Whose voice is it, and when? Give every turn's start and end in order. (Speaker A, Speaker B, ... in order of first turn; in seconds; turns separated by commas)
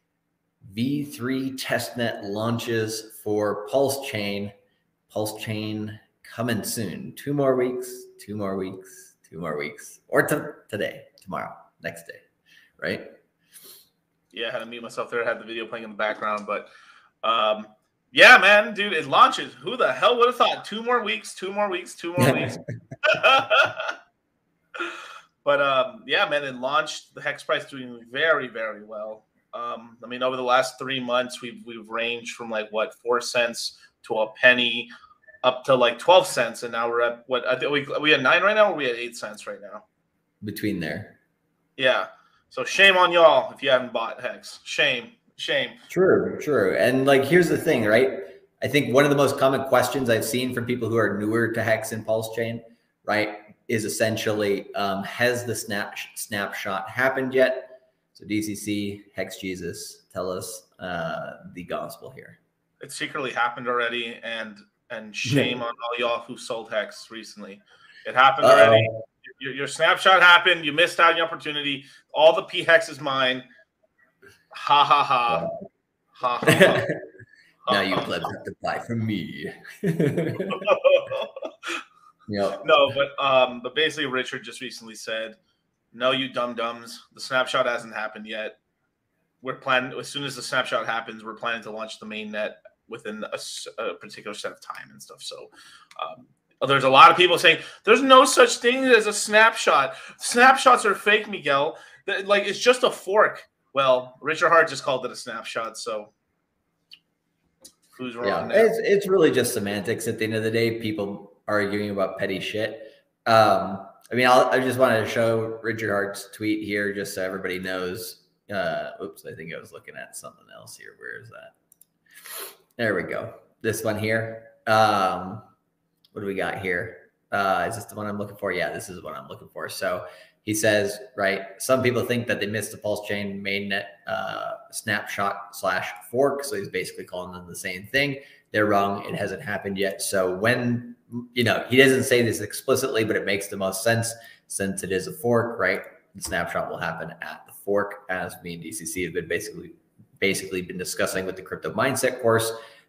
Speaker A: 0.6-4.5, Speaker A: 5.1-12.2, Speaker A: 12.8-13.1, Speaker B: 14.3-16.7, Speaker B: 17.2-23.9, Speaker A: 22.2-22.6, Speaker B: 24.8-34.9, Speaker B: 35.4-39.8, Speaker A: 40.4-41.2, Speaker B: 41.8-45.8, Speaker A: 45.9-62.4, Speaker B: 62.8-73.4, Speaker A: 65.3-65.5, Speaker A: 68.4-68.9, Speaker B: 74.5-75.5, Speaker B: 76.2-76.9, Speaker A: 76.5-77.0, Speaker B: 77.7-78.1, Speaker A: 77.7-80.6, Speaker B: 80.4-81.8, Speaker A: 82.3-82.7, Speaker B: 82.6-85.4, Speaker B: 85.9-88.6, Speaker B: 89.4-106.1, Speaker B: 107.9-108.7, Speaker A: 108.2-121.5, Speaker A: 122.8-125.5, Speaker A: 126.1-152.6